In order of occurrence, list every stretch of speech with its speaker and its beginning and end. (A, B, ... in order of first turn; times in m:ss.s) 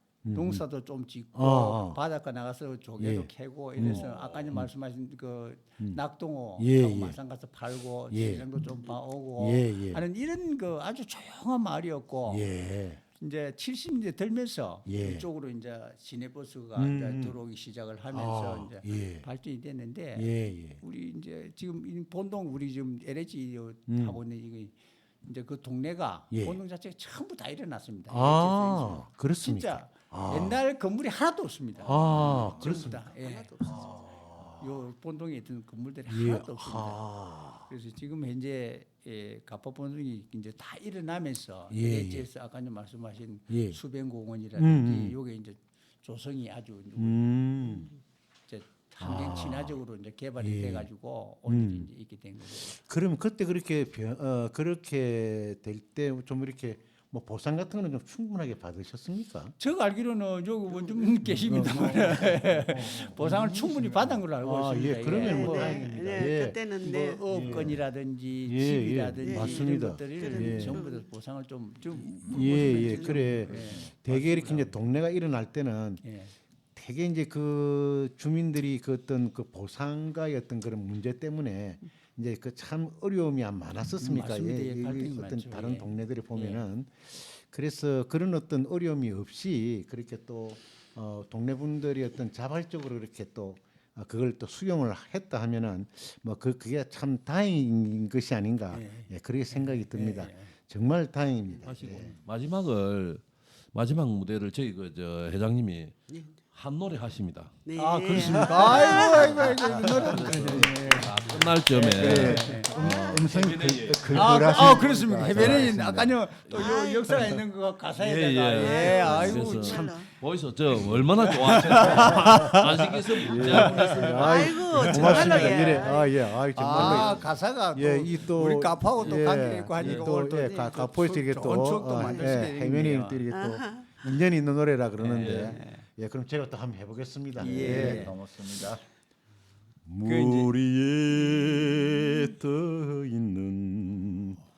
0:00.2-0:00.6 A
0:00.3-0:12.5 B
0:01.3-0:02.0 A
0:03.0-0:04.7 A
0:03.8-0:04.6 C
0:06.6-0:07.2 A
0:08.1-0:08.5 A
0:09.4-0:10.0 A
0:12.3-0:13.0 A
0:13.2-0:33.9 B
0:14.9-0:15.2 A
0:16.8-0:17.4 A
0:18.1-0:19.3 A
0:20.2-0:20.8 A
0:23.9-0:24.2 A
0:26.3-0:26.6 A
0:28.1-0:30.6 A
0:31.8-0:33.0 A
0:32.5-0:34.1 D
0:33.6-0:34.8 A
0:34.6-0:37.0 B
0:36.1-0:37.7 A
0:37.7-0:47.2 B
0:41.7-0:42.3 A
0:43.5-0:43.8 A
0:44.6-0:45.2 A
0:47.0-0:47.9 A
0:48.5-0:52.8 B
0:49.0-0:49.8 A
0:50.4-0:50.9 A
0:51.5-0:51.9 A
0:52.6-0:59.6 A
0:59.6-1:06.0 B
1:01.2-1:06.6 A
1:05.1-1:07.2 D
1:06.8-1:14.7 B
1:07.3-1:07.8 A
1:08.4-1:10.8 A
1:09.2-1:11.0 D
1:12.3-1:16.0 A
1:12.4-1:13.4 D
1:16.0-1:16.3 B
1:16.8-1:42.2 A
1:24.0-1:26.6 B
1:38.7-1:40.5 B
1:41.6-1:47.6 C
1:46.1-1:46.3 D
1:47.6-1:49.9 D
1:47.8-1:53.0 B
1:48.1-1:50.7 A
1:48.2-1:48.4 C
1:50.0-1:54.8 C
1:51.9-1:56.2 E
1:52.0-1:52.6 A
1:52.8-1:53.2 D
1:54.1-1:59.9 B
1:54.4-1:54.8 D
1:55.3-1:55.7 C
1:56.5-1:56.8 C
1:56.5-1:57.2 D
1:58.0-2:04.5 C
1:58.5-2:00.1 D
2:01.3-2:06.0 B
2:01.6-2:18.2 A
2:04.0-2:06.2 D
2:06.5-2:13.2 B
2:06.8-2:07.1 D
2:12.0-2:12.4 D
2:13.3-2:13.9 D
2:15.0-2:15.8 B
2:15.2-2:15.6 C
2:17.4-2:18.8 E
2:17.4-2:18.2 B
2:19.8-2:24.4 A
2:20.0-2:20.5 B